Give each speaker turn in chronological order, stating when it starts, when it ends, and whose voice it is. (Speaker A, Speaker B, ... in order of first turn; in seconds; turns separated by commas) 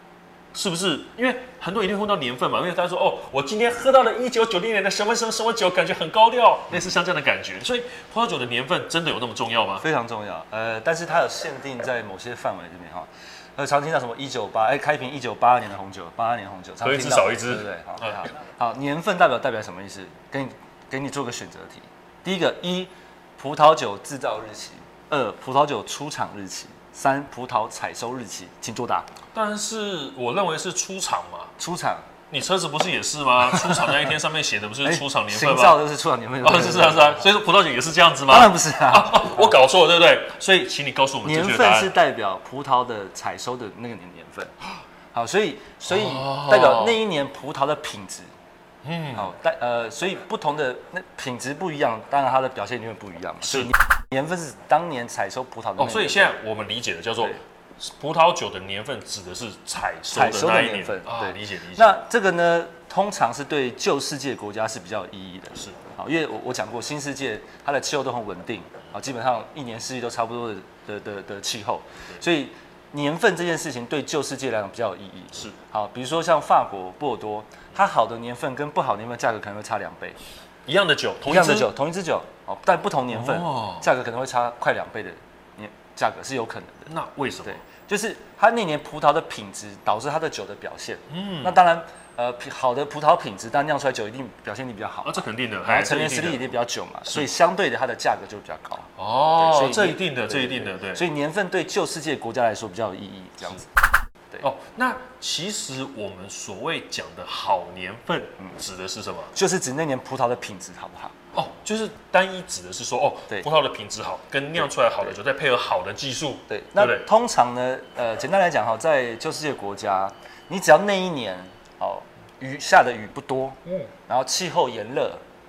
Speaker A: 0.5-9.8, Speaker B: 9.8-29.1, Speaker A: 16.8-18.3, Speaker A: 29.3-31.5, Speaker B: 31.6-32.1, Speaker A: 32.3-35.8, Speaker B: 33.5-34.0, Speaker B: 34.8-37.2, Speaker A: 36.4-42.0, Speaker B: 38.3-39.5, Speaker B: 41.2-44.5, Speaker B: 45.1-48.3, Speaker A: 45.9-47.0, Speaker A: 48.8-49.3, Speaker B: 49.1-56.4, Speaker A: 53.4-53.7, Speaker A: 55.8-61.9, Speaker B: 60.1-80.2, Speaker A: 80.7-81.7, Speaker B: 81.2-86.9, Speaker A: 83.1-83.9, Speaker A: 86.9-87.6, Speaker B: 87.4-103.7, Speaker A: 91.1-91.6, Speaker A: 95.0-96.5, Speaker A: 99.0-101.0, Speaker A: 104.4-109.3, Speaker B: 109.3-111.2, Speaker A: 111.3-117.0, Speaker B: 116.5-125.2